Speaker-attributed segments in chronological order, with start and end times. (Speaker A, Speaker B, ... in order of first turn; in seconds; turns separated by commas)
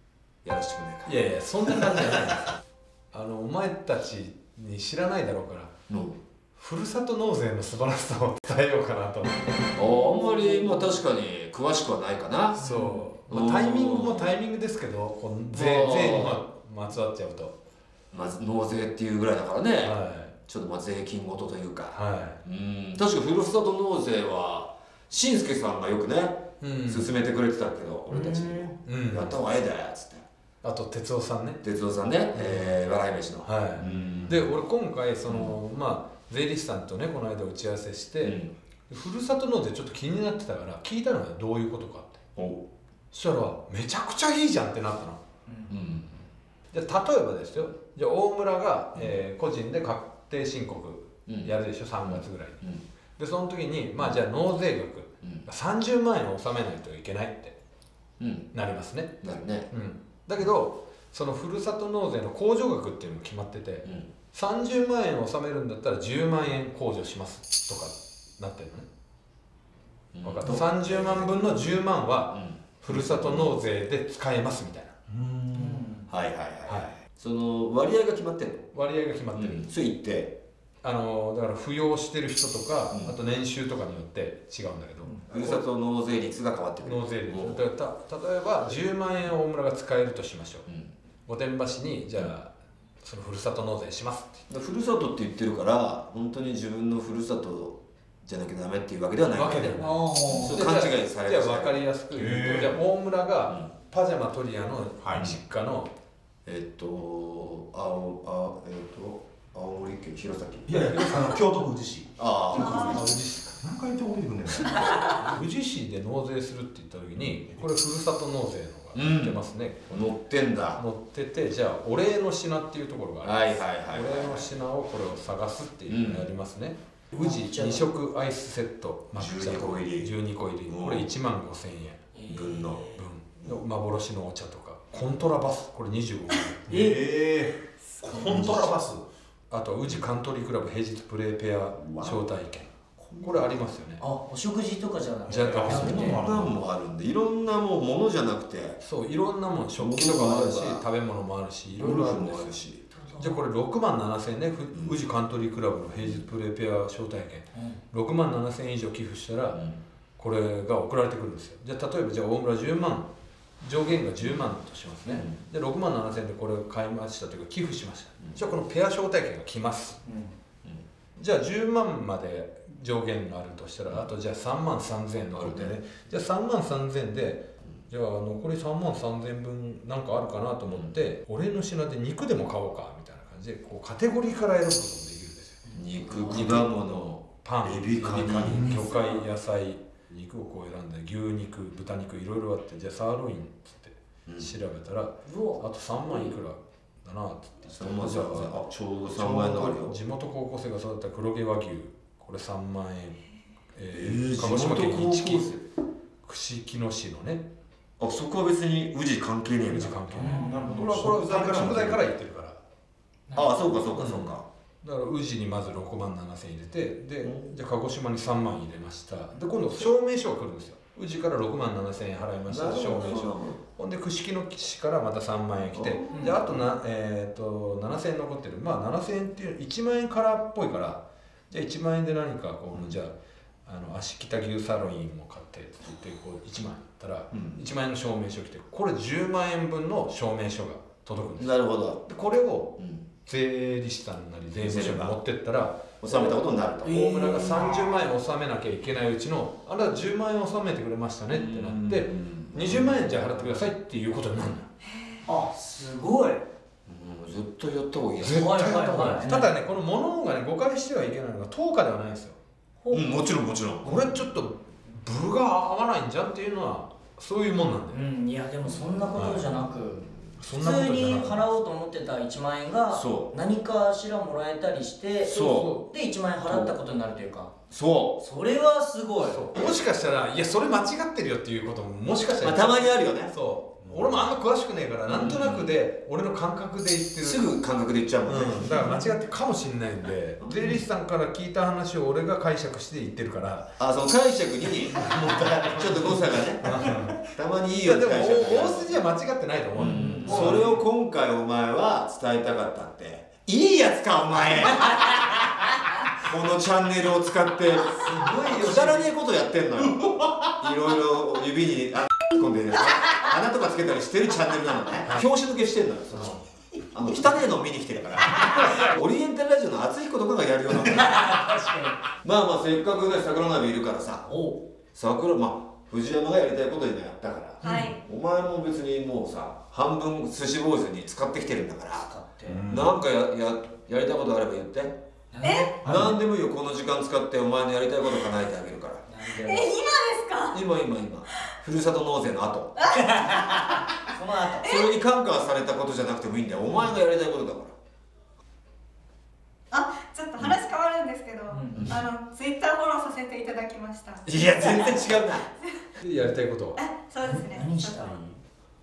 Speaker A: 0.4-1.2, Speaker B: 1.1-2.6, Speaker B: 3.1-5.7, Speaker A: 5.9-6.2, Speaker B: 6.6-9.4, Speaker A: 9.8-12.6, Speaker B: 12.6-17.6, Speaker C: 12.7-13.0, Speaker A: 13.3-14.4, Speaker A: 15.5-16.4, Speaker A: 18.1-19.9, Speaker B: 19.8-20.3, Speaker A: 20.5-30.2, Speaker B: 21.9-22.4, Speaker B: 26.6-27.1, Speaker D: 28.3-28.7, Speaker B: 28.9-29.4, Speaker B: 30.6-31.6, Speaker A: 31.6-34.5, Speaker B: 32.3-32.8, Speaker B: 33.4-42.2, Speaker A: 35.3-35.5, Speaker A: 38.2-38.5, Speaker A: 42.4-42.6, Speaker B: 43.1-45.2, Speaker D: 45.5-45.7, Speaker A: 45.7-46.1, Speaker B: 46.7-52.6, Speaker A: 51.3-52.8, Speaker B: 53.2-57.6, Speaker A: 55.2-55.5, Speaker A: 58.2-58.5, Speaker B: 58.5-68.9, Speaker A: 59.2-59.7, Speaker A: 63.9-64.1, Speaker A: 70.1-71.8, Speaker B: 70.2-75.0, Speaker A: 72.3-73.6, Speaker C: 75.1-75.9, Speaker D: 75.6-76.0, Speaker A: 76.1-78.7, Speaker B: 76.7-76.9, Speaker B: 78.7-79.7, Speaker A: 79.3-80.4, Speaker B: 80.8-85.7, Speaker A: 82.9-83.2, Speaker A: 85.3-87.6, Speaker B: 86.8-90.7, Speaker A: 90.7-90.9, Speaker B: 91.3-92.5, Speaker B: 93.0-94.4, Speaker A: 94.5-101.8, Speaker B: 99.3-105.9, Speaker D: 99.8-100.5, Speaker C: 102.1-102.7, Speaker A: 106.5-111.2, Speaker C: 110.7-112.1, Speaker A: 112.2-113.2, Speaker E: 112.6-113.1, Speaker B: 112.9-113.4, Speaker C: 113.6-115.0, Speaker B: 115.0-120.1, Speaker A: 118.9-120.8, Speaker B: 120.8-136.7, Speaker A: 123.2-124.5, Speaker A: 125.9-126.3, Speaker D: 127.2-127.9, Speaker A: 129.2-130.1, Speaker A: 130.7-131.1, Speaker D: 132.2-132.7, Speaker A: 132.3-132.9, Speaker C: 136.7-139.0, Speaker B: 138.1-138.7, Speaker A: 138.2-138.6, Speaker B: 139.5-144.0, Speaker A: 141.8-142.2, Speaker A: 143.0-143.6, Speaker D: 144.0-146.2, Speaker B: 145.3-146.3, Speaker C: 145.4-146.6, Speaker A: 145.6-148.8, Speaker B: 148.8-152.6, Speaker A: 149.8-150.8, Speaker A: 151.7-152.8, Speaker D: 152.9-153.4, Speaker B: 153.2-159.6, Speaker A: 156.0-156.3, Speaker A: 159.5-159.8, Speaker B: 160.2-163.1, Speaker B: 163.6-170.0, Speaker A: 165.1-165.4, Speaker D: 170.1-170.3, Speaker B: 171.2-185.6, Speaker A: 175.3-175.8, Speaker D: 185.7-186.4, Speaker A: 185.8-189.2, Speaker B: 186.2-198.6, Speaker A: 194.3-194.5, Speaker D: 195.2-195.6, Speaker A: 197.7-200.0, Speaker B: 199.1-203.2, Speaker B: 203.8-205.6, Speaker A: 203.9-205.6, Speaker B: 206.2-207.5, Speaker A: 208.0-210.2, Speaker B: 209.6-212.6, Speaker D: 210.2-210.8, Speaker C: 210.2-211.8, Speaker A: 211.0-212.0, Speaker D: 213.3-213.8, Speaker A: 213.3-214.4, Speaker B: 213.9-233.1, Speaker A: 217.2-217.5, Speaker A: 222.5-223.6, Speaker A: 225.7-226.6, Speaker A: 232.7-233.0, Speaker B: 233.7-241.6, Speaker A: 237.3-237.6, Speaker A: 241.4-242.1, Speaker B: 242.1-242.8, Speaker A: 242.8-243.1, Speaker B: 243.3-246.3, Speaker A: 244.5-245.2, Speaker A: 246.0-247.1, Speaker B: 246.8-254.7, Speaker D: 246.9-247.8, Speaker A: 251.3-253.4, Speaker E: 254.9-255.2, Speaker D: 255.3-256.5, Speaker A: 256.9-259.2, Speaker B: 258.2-262.4, Speaker D: 258.4-259.5, Speaker D: 262.8-263.2, Speaker A: 262.9-264.2, Speaker B: 263.8-268.0, Speaker D: 267.9-270.0, Speaker B: 269.1-269.5, Speaker B: 270.4-271.5, Speaker D: 270.6-277.5, Speaker A: 272.9-273.4, Speaker A: 275.2-275.8, Speaker B: 275.3-275.9, Speaker A: 276.5-276.7, Speaker A: 277.7-278.2, Speaker D: 278.2-279.4, Speaker B: 279.2-287.5, Speaker A: 282.4-283.3, Speaker A: 285.1-285.8, Speaker A: 287.2-289.1, Speaker B: 288.3-293.8, Speaker A: 293.8-299.0, Speaker B: 295.0-296.1, Speaker B: 296.6-297.2, Speaker B: 297.8-300.8, Speaker A: 299.8-305.1, Speaker A: 306.2-321.4, Speaker D: 308.0-309.0, Speaker D: 321.0-322.0, Speaker A: 322.2-324.3, Speaker D: 324.2-324.7, Speaker A: 324.9-332.1, Speaker E: 327.6-328.0, Speaker D: 332.0-332.6, Speaker C: 332.4-332.9, Speaker A: 332.7-335.0, Speaker D: 335.3-335.7, Speaker E: 335.4-335.8, Speaker A: 335.8-339.0, Speaker C: 335.8-336.1, Speaker D: 339.1-339.7, Speaker E: 339.2-340.6, Speaker A: 340.5-343.4, Speaker E: 342.8-343.6, Speaker D: 344.1-344.6, Speaker E: 344.4-344.9, Speaker A: 344.6-347.8, Speaker E: 349.7-354.2, Speaker D: 351.5-351.8, Speaker A: 351.7-352.0, Speaker A: 354.2-355.5, Speaker E: 355.5-355.9, Speaker B: 356.0-356.8, Speaker E: 356.8-358.2, Speaker D: 357.6-358.4